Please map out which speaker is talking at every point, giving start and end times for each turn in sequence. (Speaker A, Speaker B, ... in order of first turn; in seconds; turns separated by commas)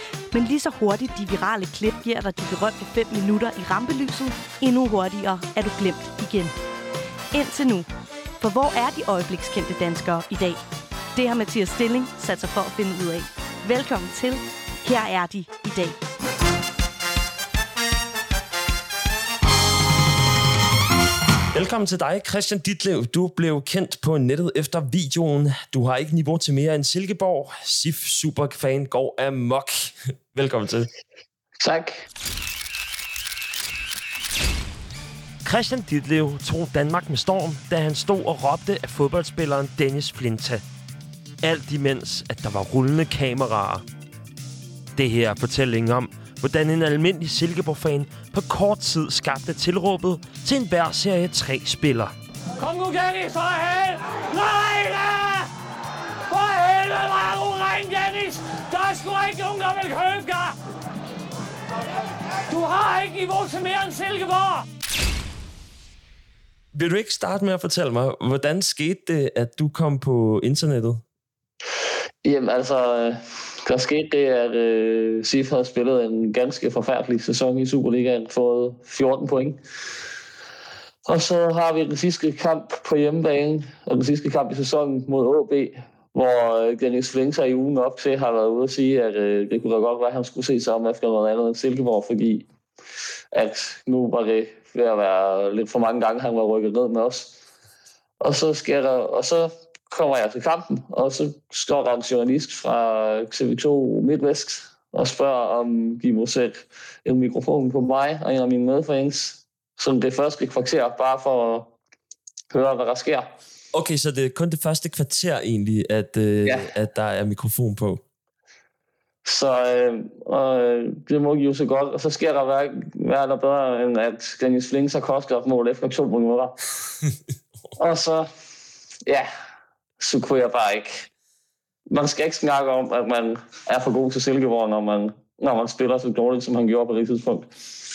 Speaker A: 0.3-6.5, Speaker A: 7.3-7.9, Speaker A: 8.4-10.6, Speaker A: 11.2-16.0, Speaker B: 21.5-30.9, Speaker C: 31.6-32.0, Speaker B: 35.4-40.6, Speaker B: 41.4-43.9, Speaker B: 45.0-52.1, Speaker D: 52.6-55.5, Speaker D: 56.3-60.6, Speaker D: 62.5-64.7, Speaker B: 66.7-71.0, Speaker C: 72.2-79.6, Speaker C: 81.1-92.5, Speaker C: 93.3-97.4, Speaker C: 98.2-111.8, Speaker C: 112.5-113.3, Speaker B: 113.7-118.0, Speaker C: 116.5-116.7, Speaker C: 119.2-126.6, Speaker C: 127.8-128.3, Speaker C: 130.0-131.1, Speaker C: 131.9-137.5